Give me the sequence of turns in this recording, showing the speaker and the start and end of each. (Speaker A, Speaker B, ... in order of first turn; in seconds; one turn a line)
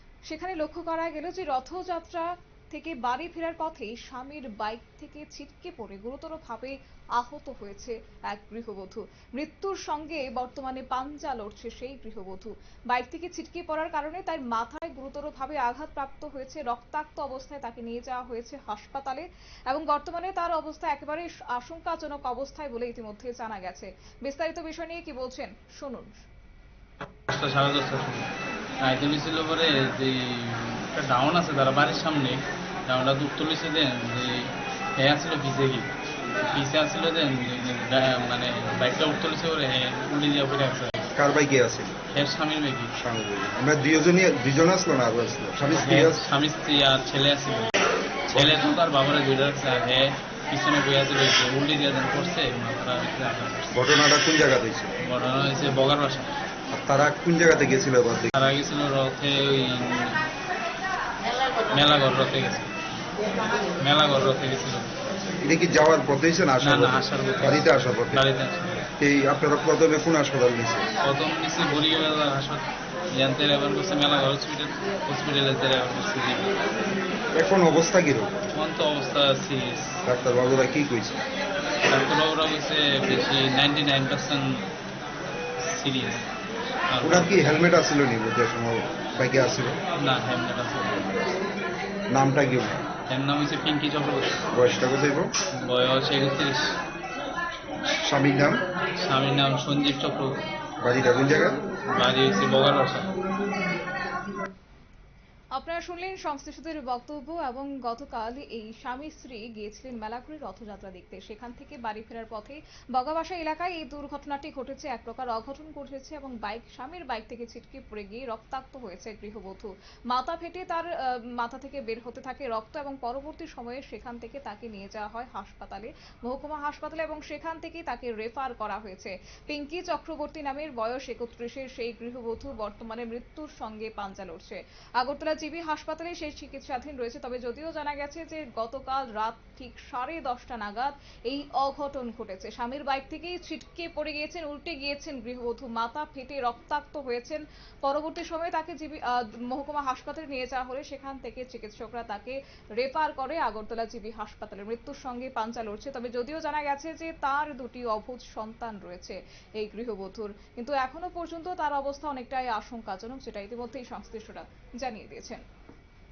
Speaker A: 0.2-26.2
Speaker B: 27.3-28.3
Speaker B: 28.8-41.1
Speaker C: 41.1-42.0
Speaker B: 42.1-43.0
Speaker C: 43.0-46.2
Speaker B: 45.7-47.7
Speaker C: 48.3-48.7
Speaker B: 48.3-53.7
Speaker C: 53.7-54.9
Speaker B: 55.0-56.4
Speaker C: 56.7-58.5
Speaker B: 58.3-60.3
Speaker B: 61.7-62.7
Speaker B: 63.8-65.0
Speaker C: 65.4-68.2
Speaker B: 66.6-68.9
Speaker C: 69.0-70.9
Speaker B: 71.0-76.5
Speaker C: 77.3-78.4
Speaker B: 78.5-80.0
Speaker C: 80.0-81.2
Speaker B: 81.8-84.6
Speaker B: 85.6-86.2
Speaker B: 86.9-87.5
Speaker C: 87.0-89.8
Speaker B: 90.0-91.2
Speaker C: 92.1-92.8
Speaker B: 93.1-94.4
Speaker C: 94.5-95.3
Speaker B: 95.5-96.7
Speaker C: 98.0-98.6
Speaker B: 99.0-100.4
Speaker C: 100.8-101.6
Speaker B: 101.9-103.1
Speaker A: 105.5-165.4